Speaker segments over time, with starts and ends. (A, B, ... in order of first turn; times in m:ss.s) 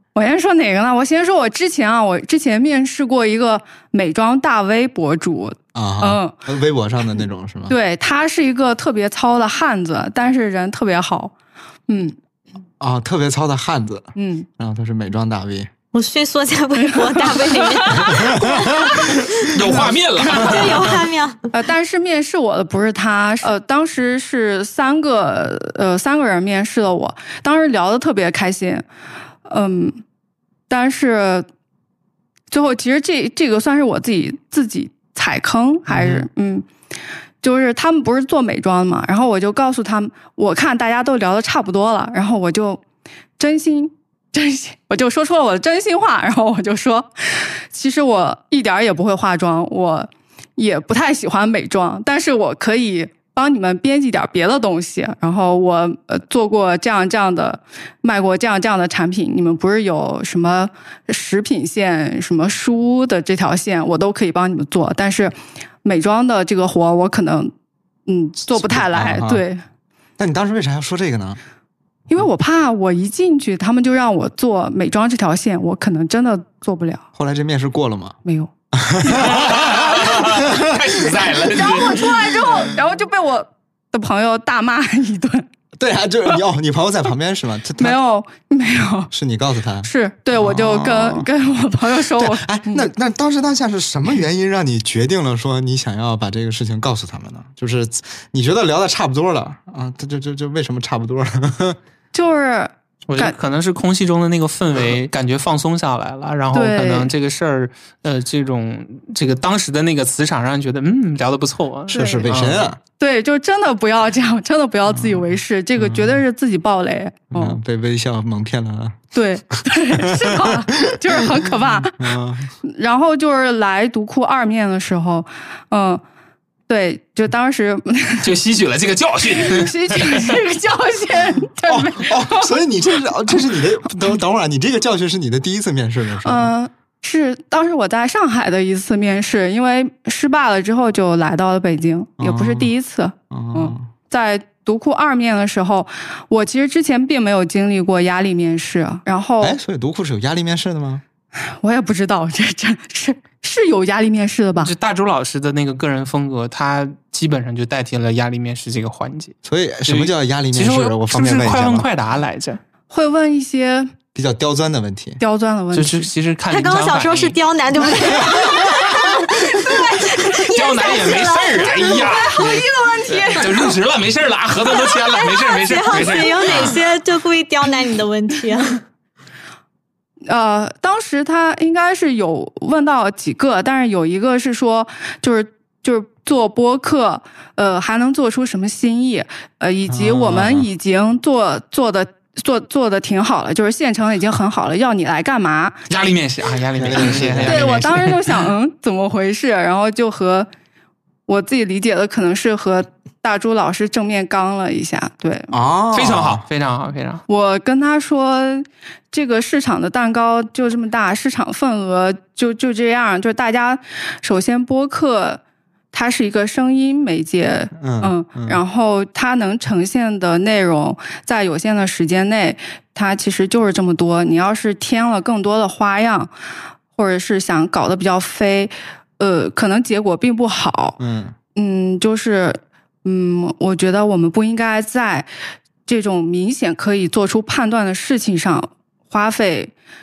0:00.1-0:06.3 A
0:05.7-0:07.8 B
0:07.7-0:11.3 A
0:11.9-0:12.2 A
0:12.8-0:15.7 B
0:14.2-0:14.5 A
0:15.9-0:19.4 C
0:16.8-0:18.5 A
0:18.1-0:18.9 B
0:19.4-0:21.0 D
0:19.6-0:20.8 A
0:20.2-0:21.4 C
0:21.5-0:28.8 A
0:29.4-0:30.0 A
0:30.7-0:31.5 A
0:32.5-0:36.7 A
0:35.9-0:36.2 B
0:37.4-0:42.8 A
0:43.4-1:07.5 A
1:08.1-1:09.6 A
1:08.5-1:09.4 B
1:10.2-1:11.4 B
1:12.1-1:17.0 A
1:17.1-1:18.2 B
1:18.2-1:18.5 A
1:18.7-1:22.6 B
1:19.0-1:20.2 A
1:19.1-1:22.1 D
1:21.3-1:25.4 A
1:25.8-1:28.0 B
1:27.8-1:29.1 A
1:29.1-1:31.3 B
1:29.8-1:32.8 A
1:31.9-1:41.8 B
1:42.1-1:43.3 A
1:43.1-1:52.7 D
1:46.5-1:47.1 A
1:51.9-1:52.3 A
1:51.9-1:52.8 B
1:53.0-1:57.6 A
1:54.9-1:56.2 B
1:57.3-1:59.0 B
1:59.1-2:06.0 A
1:59.9-2:02.5 B
2:06.7-2:08.3 A
2:08.2-2:10.4 D
2:09.3-2:12.6 A
2:11.6-2:16.5 B
2:16.2-2:29.6 A
2:22.2-2:22.7 B
2:23.3-2:23.9 B
2:29.4-2:31.0 B
2:31.4-2:34.7 A
2:34.6-2:39.4 D
2:39.4-2:41.9 B
2:39.9-2:42.6 D
2:42.9-2:43.9 A
2:44.1-2:45.2 B
2:45.2-2:46.1 A
2:45.7-2:47.4 D
2:46.5-2:52.4 C
2:49.6-2:51.0 A
2:50.5-2:56.8 D
2:51.6-2:53.8 A
2:54.7-2:58.8 C
2:56.0-2:56.7 A
3:00.2-3:15.8 A
3:09.9-3:10.7 B
3:15.9-3:18.4 D
3:16.7-3:17.9 B
3:17.4-3:20.5 A
3:21.3-3:25.5 A
3:25.5-3:26.4 B
3:25.9-3:27.2 D
3:27.3-3:35.4 A
3:35.9-3:46.3 A
3:37.8-3:38.6 B
3:46.9-3:51.0 A
3:51.0-3:51.3 B
3:51.5-3:55.3 A
3:55.8-3:59.7 A